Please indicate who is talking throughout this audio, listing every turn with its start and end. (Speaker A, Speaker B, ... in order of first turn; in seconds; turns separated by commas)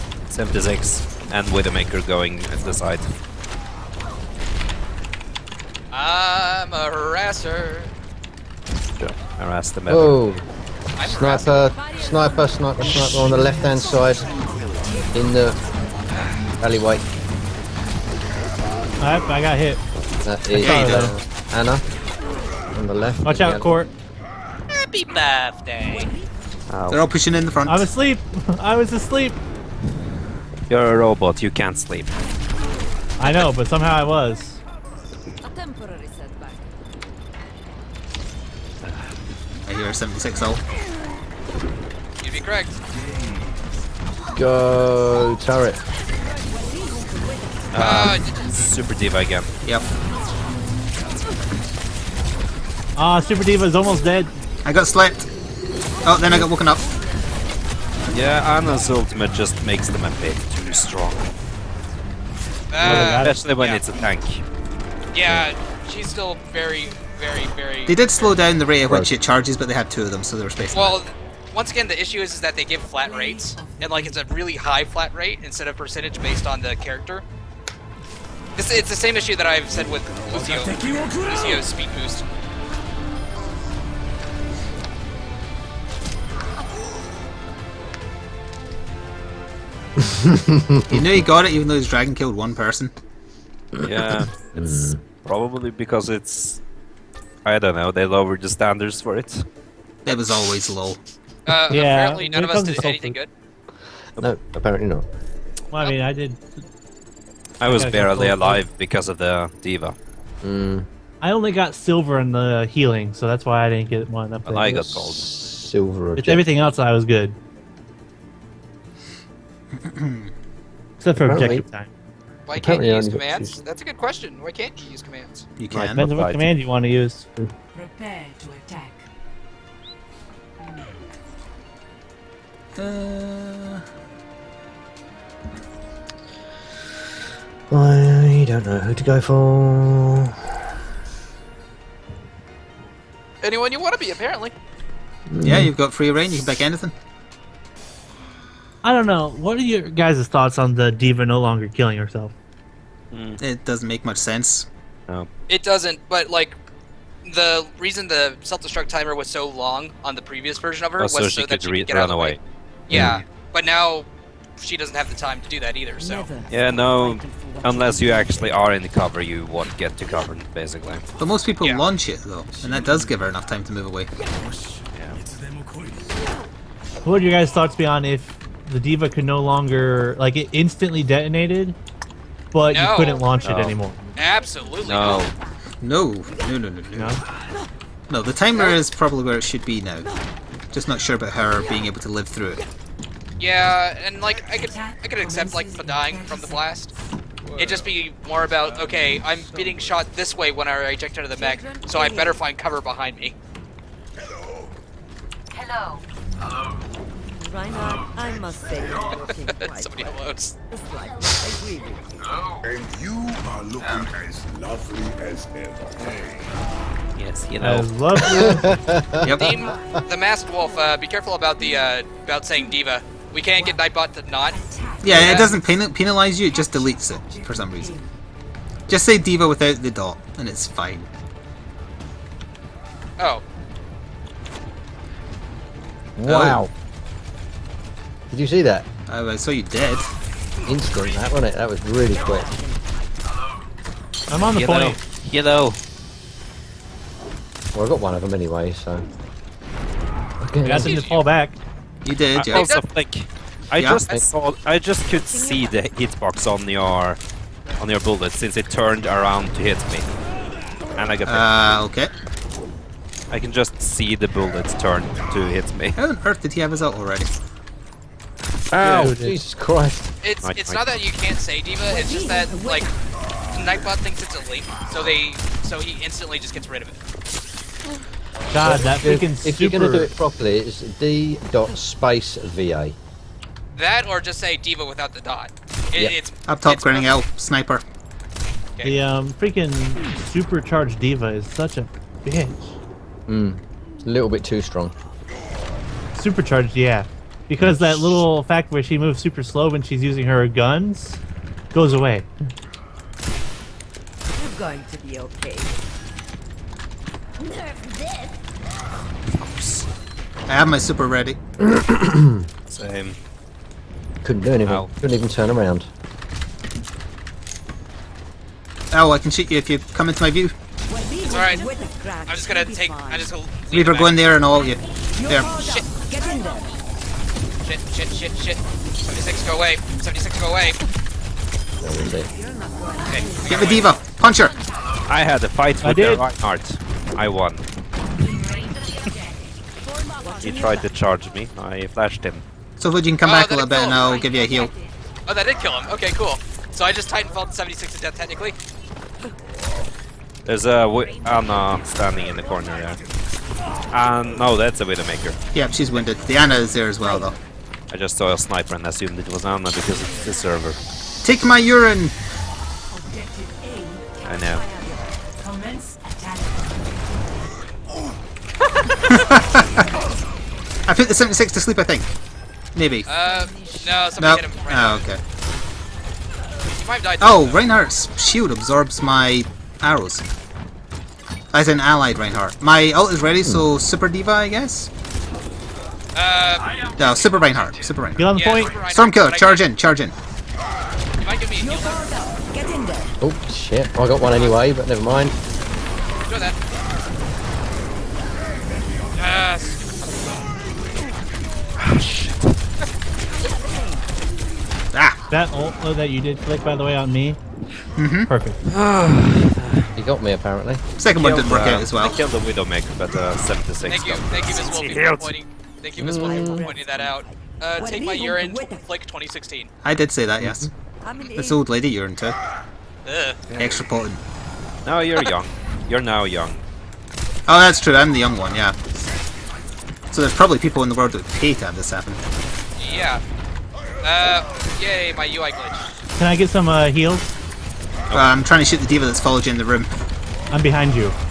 Speaker A: 0.3-3.1, Speaker B: 5.9-7.9, Speaker A: 9.0-10.1, Speaker C: 9.9-10.4, Speaker B: 11.0-11.5, Speaker C: 11.0-14.3, Speaker D: 11.8-15.1, Speaker E: 14.8-15.0, Speaker C: 15.1-15.6, Speaker B: 16.1-16.4, Speaker C: 16.6-17.1, Speaker F: 19.0-19.8, Speaker C: 20.2-21.8, Speaker G: 20.6-21.1, Speaker F: 20.6-21.1, Speaker C: 22.7-23.7, Speaker F: 23.2-23.9, Speaker B: 24.7-26.1, Speaker D: 25.9-26.2, Speaker A: 26.7-27.1, Speaker G: 26.9-27.9, Speaker F: 27.7-29.4, Speaker A: 30.7-32.1, Speaker F: 33.2-34.6, Speaker D: 35.4-36.7, Speaker G: 39.7-40.6, Speaker B: 42.2-42.8, Speaker E: 42.9-43.8, Speaker C: 44.4-45.8, Speaker D: 46.2-48.0, Speaker A: 47.7-49.5, Speaker B: 47.7-48.4, Speaker F: 53.0-54.3, Speaker G: 54.6-55.3, Speaker G: 56.0-56.9, Speaker A: 58.1-61.3, Speaker B: 62.7-63.8, Speaker F: 62.8-63.4, Speaker A: 62.8-64.4, Speaker B: 65.1-68.3, Speaker G: 67.9-71.0, Speaker B: 70.7-77.2, Speaker D: 73.0-74.2, Speaker B: 78.6-82.2, Speaker E: 80.2-81.7, Speaker C: 90.0-91.2, Speaker G: 90.9-92.9, Speaker C: 93.8-95.0, Speaker A: 93.8-96.6, Speaker A: 97.5-99.5, Speaker G: 100.0-101.0, Speaker B: 100.1-100.5, Speaker B: 101.5-103.3, Speaker F: 101.7-103.2, Speaker C: 104.2-105.1, Speaker F: 105.7-106.6, Speaker A: 107.6-110.0, Speaker F: 107.6-108.6, Speaker C: 110.4-110.9, Speaker F: 111.2-114.8, Speaker A: 114.5-115.3, Speaker C: 114.6-116.5, Speaker F: 116.2-117.4, Speaker G: 119.8-120.3, Speaker F: 121.0-121.9, Speaker C: 121.1-121.6, Speaker B: 122.5-125.5, Speaker C: 122.6-123.5, Speaker G: 125.6-126.0, Speaker C: 125.7-126.4, Speaker F: 126.0-127.3, Speaker D: 127.7-129.0, Speaker D: 130.6-131.1, Speaker G: 132.8-133.8, Speaker C: 137.7-140.4, Speaker B: 143.4-144.5, Speaker C: 145.3-145.7, Speaker G: 145.4-146.9, Speaker F: 148.8-152.3, Speaker A: 153.1-153.4, Speaker G: 153.4-154.7, Speaker B: 155.5-156.6, Speaker B: 157.2-164.1, Speaker A: 161.0-163.2, Speaker C: 162.9-163.2, Speaker B: 164.6-166.3, Speaker D: 166.0-168.9, Speaker A: 166.5-171.1, Speaker G: 171.2-174.1, Speaker E: 172.6-173.1, Speaker E: 174.2-176.2, Speaker A: 174.9-175.2, Speaker F: 177.0-181.8, Speaker F: 182.5-184.0, Speaker B: 182.7-183.3, Speaker A: 183.4-183.8, Speaker B: 184.2-185.3, Speaker D: 184.8-185.3, Speaker A: 184.8-185.3, Speaker G: 185.8-187.2, Speaker F: 187.0-187.2, Speaker G: 188.1-190.1, Speaker G: 190.7-192.6, Speaker B: 193.4-196.9, Speaker D: 194.7-196.7, Speaker E: 197.4-197.9, Speaker B: 197.6-203.4, Speaker E: 198.5-200.1, Speaker D: 201.4-202.4, Speaker D: 207.4-210.1, Speaker B: 209.1-210.6, Speaker D: 210.7-212.2, Speaker E: 212.9-215.3, Speaker E: 215.8-216.4, Speaker A: 217.2-217.9, Speaker F: 217.6-218.7, Speaker C: 218.2-219.8, Speaker G: 219.2-219.6, Speaker B: 219.3-225.6, Speaker D: 219.7-220.0, Speaker D: 224.5-225.8, Speaker G: 225.0-228.0, Speaker D: 226.8-227.9, Speaker G: 228.9-231.1, Speaker B: 233.2-233.4, Speaker C: 236.2-236.7, Speaker G: 236.3-236.6, Speaker C: 238.3-238.9, Speaker G: 239.1-240.1, Speaker C: 240.7-242.6, Speaker D: 242.1-243.1, Speaker F: 244.3-245.0, Speaker A: 244.5-245.8, Speaker C: 247.7-249.1, Speaker C: 250.4-251.0, Speaker F: 250.6-251.6, Speaker B: 250.7-251.2, Speaker G: 252.1-252.7, Speaker A: 252.3-257.2, Speaker B: 252.5-252.8, Speaker G: 253.8-254.1, Speaker D: 255.1-255.7, Speaker A: 257.8-260.1, Speaker A: 260.9-261.5, Speaker G: 261.2-262.1, Speaker A: 263.3-266.0, Speaker G: 266.0-267.3, Speaker C: 268.7-270.1, Speaker F: 268.8-269.4, Speaker B: 270.2-272.9, Speaker A: 270.4-270.8, Speaker D: 271.9-272.9, Speaker B: 273.5-277.0, Speaker F: 278.5-280.1, Speaker C: 278.6-283.0, Speaker B: 283.8-287.2, Speaker G: 286.5-287.8, Speaker F: 288.8-292.7, Speaker C: 293.3-294.9, Speaker F: 296.2-301.2, Speaker F: 301.7-302.3, Speaker D: 304.3-305.8, Speaker D: 307.4-308.3, Speaker A: 309.3-309.9, Speaker G: 310.5-311.4, Speaker C: 311.6-312.5, Speaker A: 312.7-313.2, Speaker C: 314.2-315.9, Speaker G: 318.9-320.5, Speaker D: 320.9-323.3, Speaker B: 321.3-321.7, Speaker B: 322.3-324.4, Speaker G: 323.7-325.5, Speaker D: 325.1-326.7, Speaker B: 325.4-325.9, Speaker B: 327.6-330.8, Speaker C: 331.8-332.3, Speaker D: 332.1-334.0, Speaker B: 333.1-334.0, Speaker G: 333.4-334.6, Speaker A: 335.1-337.6, Speaker F: 335.8-336.2, Speaker D: 338.2-341.0, Speaker A: 340.4-342.4, Speaker G: 342.8-344.7, Speaker B: 343.2-344.2, Speaker D: 344.1-344.9, Speaker B: 345.3-348.6, Speaker A: 350.4-353.0, Speaker D: 351.0-352.0, Speaker E: 352.2-352.9, Speaker A: 353.9-355.4, Speaker G: 355.5-357.4, Speaker D: 357.0-357.4, Speaker A: 357.9-360.8, Speaker G: 361.2-362.2, Speaker D: 363.0-366.6, Speaker A: 364.2-364.7, Speaker G: 369.1-369.9, Speaker G: 370.9-372.2, Speaker G: 372.8-373.1, Speaker B: 373.1-375.1, Speaker D: 373.2-374.9, Speaker G: 374.2-375.2, Speaker B: 376.7-377.7, Speaker G: 377.2-380.2, Speaker G: 381.5-384.9, Speaker B: 386.1-386.8, Speaker G: 387.0-390.1, Speaker F: 388.2-388.8, Speaker B: 388.3-389.7, Speaker B: 391.2-392.2, Speaker D: 391.6-393.1, Speaker C: 393.2-395.3, Speaker B: 394.3-394.6, Speaker B: 396.2-396.6, Speaker B: 399.2-400.4, Speaker A: 401.8-402.6, Speaker D: 403.3-404.2, Speaker G: 404.9-405.2, Speaker F: 405.3-407.4, Speaker G: 408.0-408.3, Speaker F: 408.3-408.6, Speaker A: 408.7-409.9, Speaker C: 410.0-410.8, Speaker G: 411.0-412.2, Speaker A: 411.1-415.3, Speaker B: 413.9-419.7, Speaker C: 416.0-416.7, Speaker D: 416.0-418.9, Speaker G: 419.8-420.7, Speaker C: 420.4-420.7, Speaker D: 421.0-421.6, Speaker G: 421.2-422.4, Speaker B: 423.1-423.5, Speaker G: 423.6-424.2, Speaker A: 424.9-426.6, Speaker G: 427.5-428.8, Speaker G: 430.1-432.2, Speaker B: 432.8-433.2, Speaker B: 434.0-435.9, Speaker F: 436.2-437.3, Speaker G: 438.1-439.9, Speaker F: 440.5-441.2